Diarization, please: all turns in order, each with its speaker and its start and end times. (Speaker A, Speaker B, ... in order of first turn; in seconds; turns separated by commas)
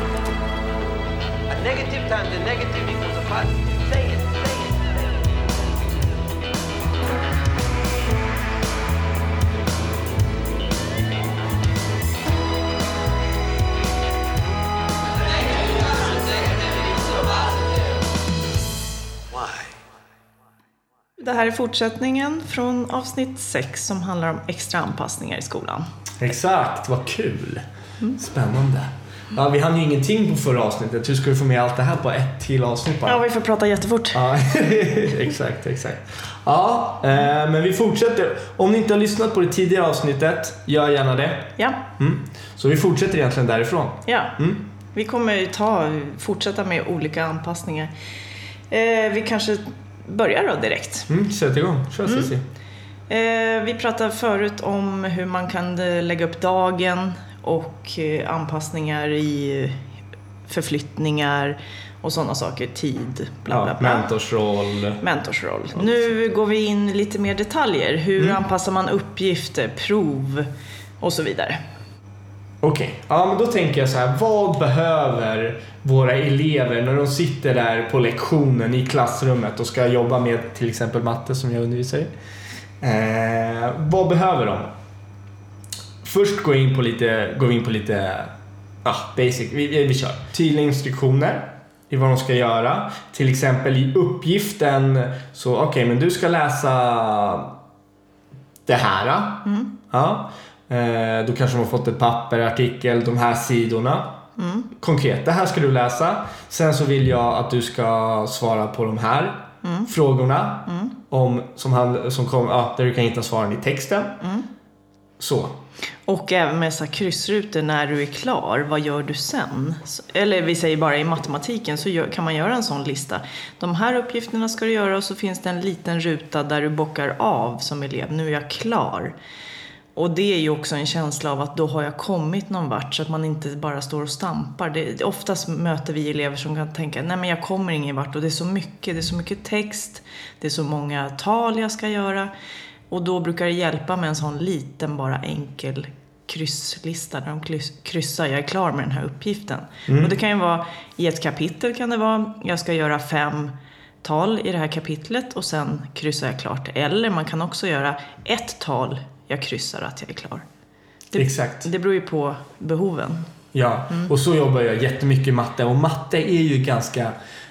Speaker A: 1.5-5.7, Speaker B: 21.2-25.9, Speaker C: 26.2-33.2, Speaker B: 33.0-34.2, Speaker C: 34.1-44.7, Speaker B: 41.6-41.8, Speaker B: 44.1-44.4, Speaker B: 44.9-47.9, Speaker B: 48.7-51.1, Speaker C: 51.1-52.5, Speaker B: 53.1-59.9, Speaker B: 60.5-64.1, Speaker C: 63.5-65.0, Speaker B: 65.0-70.5, Speaker C: 65.7-66.1, Speaker B: 71.0-71.6, Speaker C: 72.6-82.1, Speaker C: 82.8-84.7, Speaker C: 86.0-97.6, Speaker C: 98.7-104.2, Speaker B: 99.5-99.7, Speaker B: 104.4-104.7, Speaker C: 104.7-114.2, Speaker B: 109.6-109.9, Speaker B: 110.7-110.9, Speaker B: 114.2-114.5, Speaker C: 115.2-115.6, Speaker B: 116.1-129.1, Speaker B: 129.9-142.3, Speaker B: 142.9-160.4, Speaker C: 149.9-150.1, Speaker B: 161.1-163.3, Speaker C: 161.2-161.7, Speaker C: 163.5-167.2